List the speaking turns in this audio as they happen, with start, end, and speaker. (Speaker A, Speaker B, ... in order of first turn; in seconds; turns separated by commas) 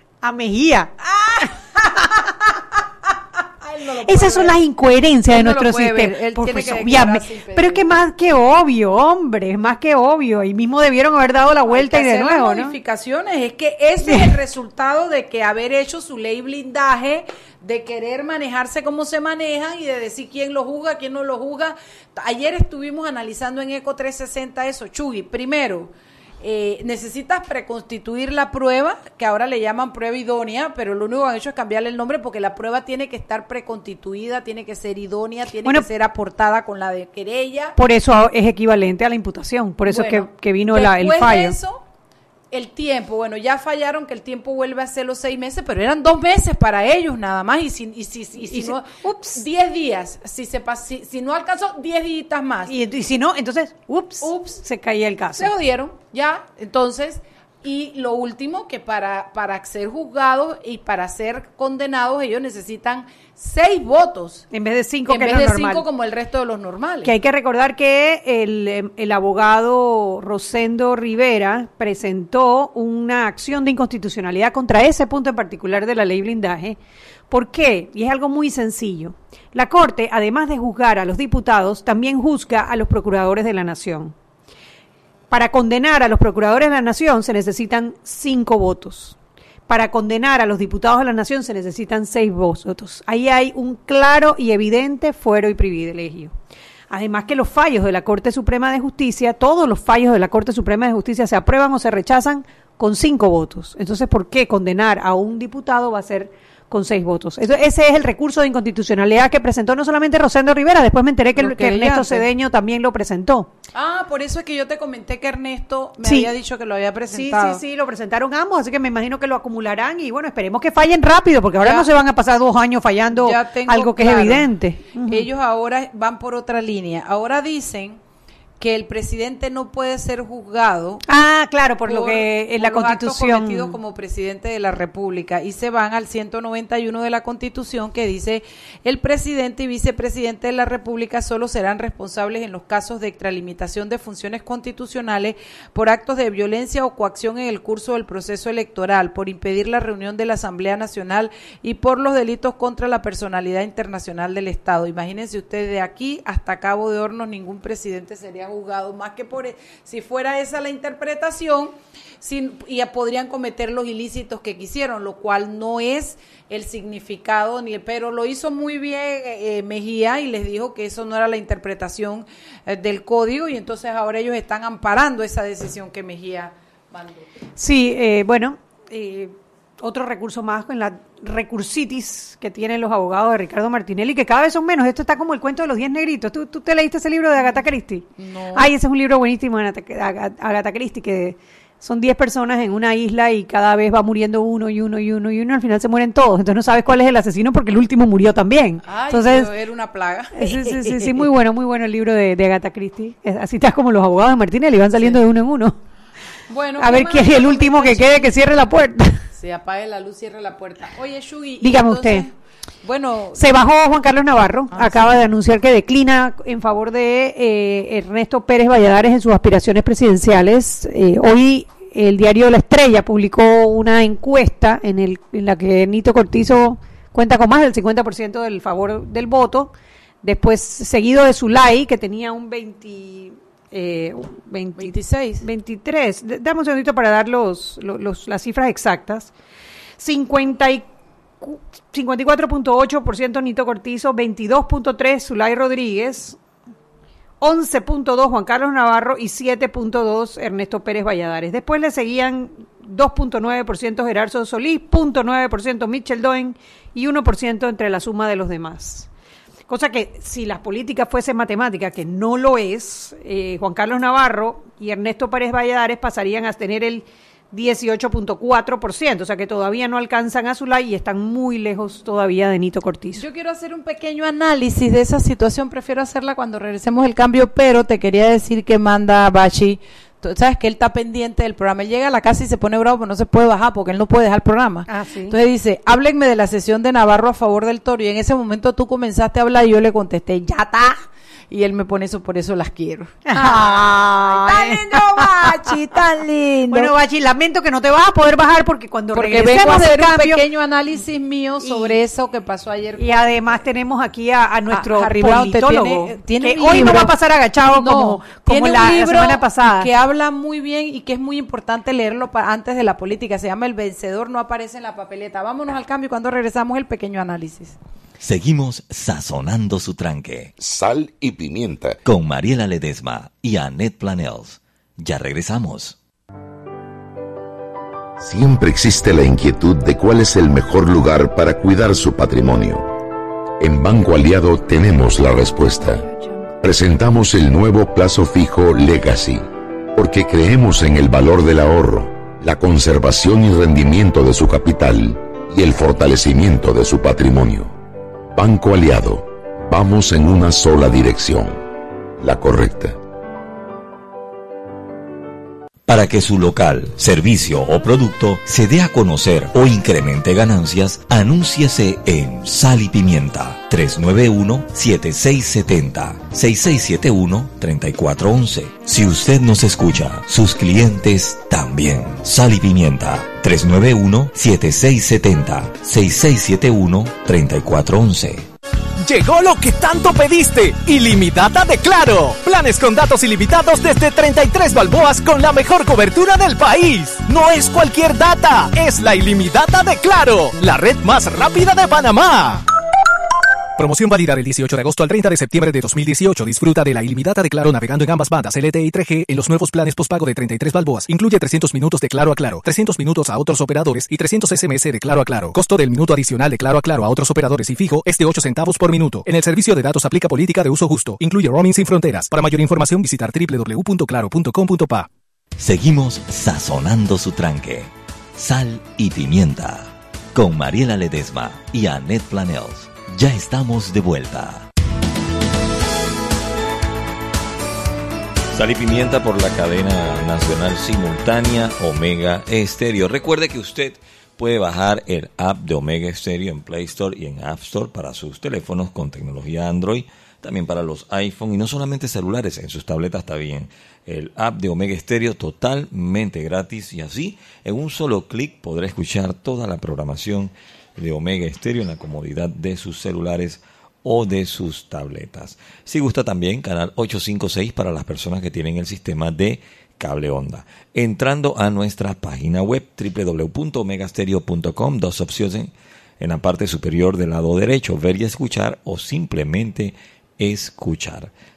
Speaker A: 0.2-0.9, Speaker B: 1.1-2.2, Speaker B: 3.6-4.6, Speaker A: 4.0-12.8, Speaker B: 5.3-7.9, Speaker B: 11.7-37.8, Speaker A: 14.0-14.4, Speaker A: 37.8-41.6, Speaker B: 39.9-41.8, Speaker B: 42.5-52.8, Speaker A: 48.4-49.5, Speaker A: 52.7-55.5, Speaker B: 54.2-54.6, Speaker B: 55.4-64.5, Speaker A: 64.5-65.9, Speaker B: 65.1-67.1, Speaker A: 67.0-76.8, Speaker A: 77.3-84.1, Speaker A: 85.3-89.2, Speaker A: 89.7-96.3, Speaker A: 96.9-113.5, Speaker B: 111.4-112.2, Speaker B: 113.7-117.6, Speaker A: 116.0-116.3, Speaker A: 117.1-125.3, Speaker B: 121.6-121.9, Speaker B: 123.2-128.0, Speaker B: 128.6-131.0, Speaker A: 131.1-133.8, Speaker B: 131.8-177.3, Speaker A: 177.6-199.5, Speaker B: 187.4-187.6, Speaker B: 188.2-188.7, Speaker B: 198.8-201.3, Speaker A: 200.4-205.8, Speaker B: 206.5-208.3, Speaker A: 206.8-209.2, Speaker B: 209.4-213.5, Speaker A: 211.6-212.3, Speaker A: 213.3-239.3, Speaker B: 214.7-215.2, Speaker B: 234.8-235.4, Speaker A: 240.0-240.9, Speaker A: 241.4-246.4, Speaker A: 247.4-259.1, Speaker A: 259.7-273.2, Speaker B: 273.1-296.9, Speaker A: 284.9-285.4, Speaker A: 293.2-295.7, Speaker A: 296.7-300.4, Speaker B: 299.1-303.2, Speaker A: 301.6-302.0, Speaker A: 303.0-309.9, Speaker B: 304.7-317.8, Speaker C: 318.2-320.5, Speaker D: 320.6-322.0, Speaker C: 322.0-326.0, Speaker D: 328.2-332.9, Speaker D: 333.6-347.8, Speaker D: 348.3-351.6, Speaker D: 352.2-353.0, Speaker C: 355.9-378.4, Speaker E: 379.0-392.6, Speaker E: 393.8-415.1, Speaker C: 415.6-424.7, Speaker C: 428.5-471.3